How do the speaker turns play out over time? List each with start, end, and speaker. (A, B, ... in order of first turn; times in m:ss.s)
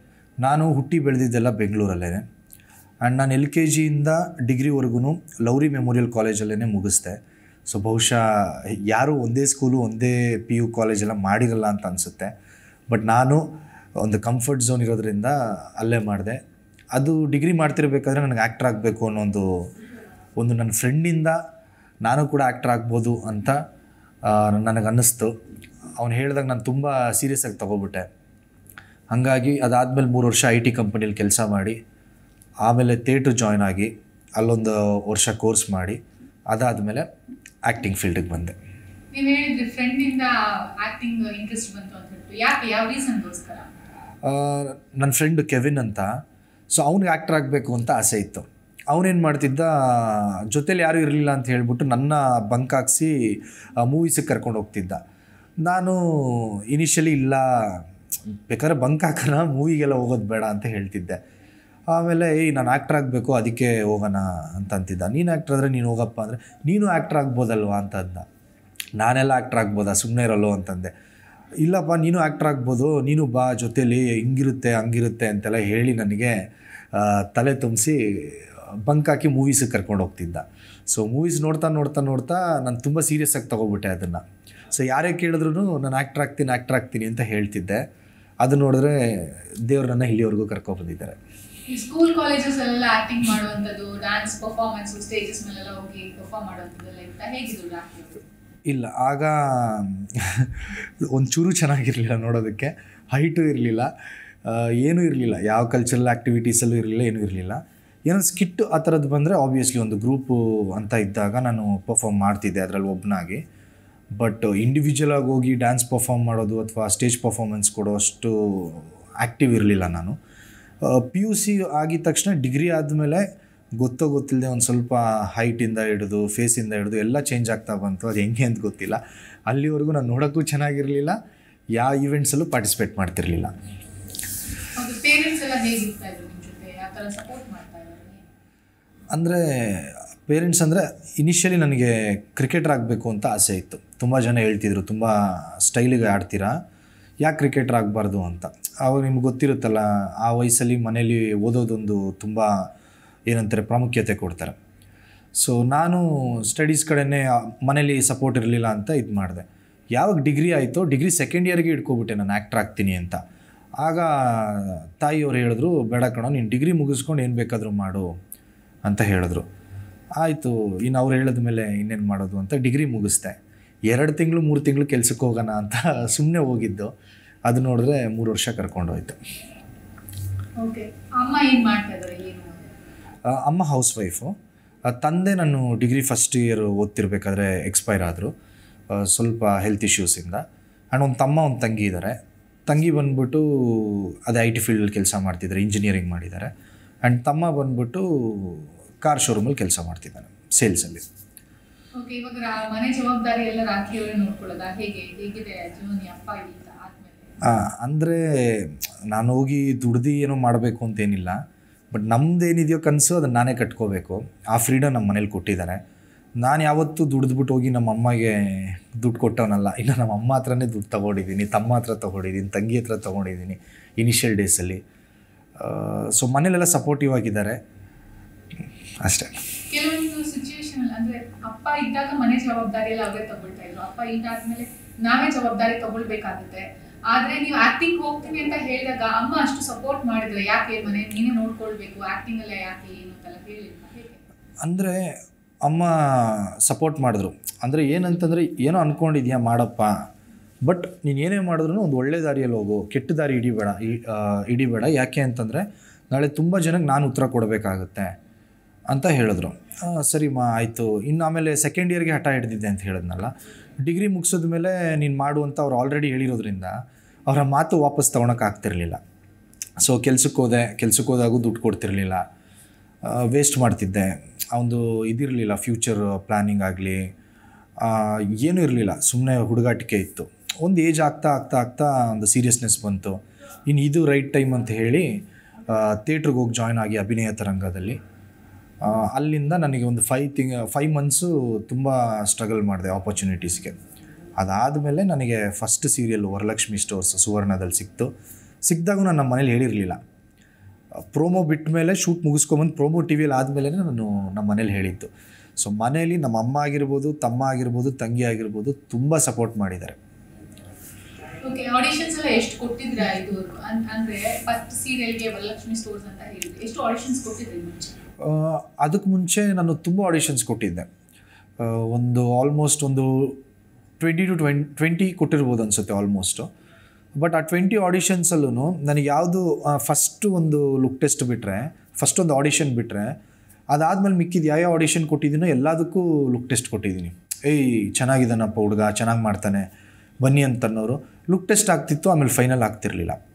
0:00.4-0:02.2 A
0:03.0-0:12.3 A
0:12.9-0:13.4 A
0:14.0-0:16.4 A
0:16.9-0:19.7 A
0:20.4-0:21.4 A
0:22.0-0:23.6 A
0:24.2-0:25.3 A
0:26.0-0:28.1 A
0:29.1-0:31.8 A
0:32.6-0:37.1 A
0:37.6-0:38.6 A
0:39.1-0:43.7 B
0:44.2-0:55.0 A
0:55.6-0:57.9 A
0:58.5-1:01.2 A
1:01.9-1:08.2 A
1:09.0-1:10.9 A
1:11.6-1:16.3 A
1:16.9-1:27.8 A
1:28.4-1:31.2 A
1:31.7-1:38.2 B
1:38.6-1:43.9 A
1:44.4-1:53.4 A
1:54.2-2:00.2 A
2:00.8-2:03.2 A
2:03.8-2:11.2 A
2:11.7-2:13.5 A
2:14.7-2:18.2 B
2:19.1-2:26.6 A
2:27.2-2:32.7 A
2:33.3-2:34.6 A
2:35.3-2:43.2 A
2:43.8-2:48.1 A
2:48.8-2:49.5 A
2:50.2-2:56.9 A
2:57.5-2:59.2 A
3:00.6-3:02.6 B
3:03.2-3:04.3 A
3:04.8-3:08.3 A
3:08.9-3:16.5 A
3:17.0-3:21.0 A
3:22.0-3:27.3 B
3:27.4-3:35.8 A
3:36.4-3:44.8 A
3:45.6-3:47.6 A
3:49.0-3:49.3 A
3:49.7-4:04.2 B
4:04.6-4:10.1 A
4:10.6-4:18.2 A
4:18.9-4:23.3 A
4:23.8-4:29.0 A
4:29.8-4:32.2 A
4:33.0-4:37.1 A
4:37.8-4:48.0 A
4:48.8-4:53.8 A
4:54.4-4:58.1 A
4:58.7-5:00.0 A
5:01.1-5:10.0 A
5:11.4-5:18.0 B
5:18.2-5:20.9 A
5:21.6-5:23.4 A
5:24.0-5:26.5 A
5:27.1-5:33.1 A
5:33.7-5:39.7 A
5:40.2-5:43.2 A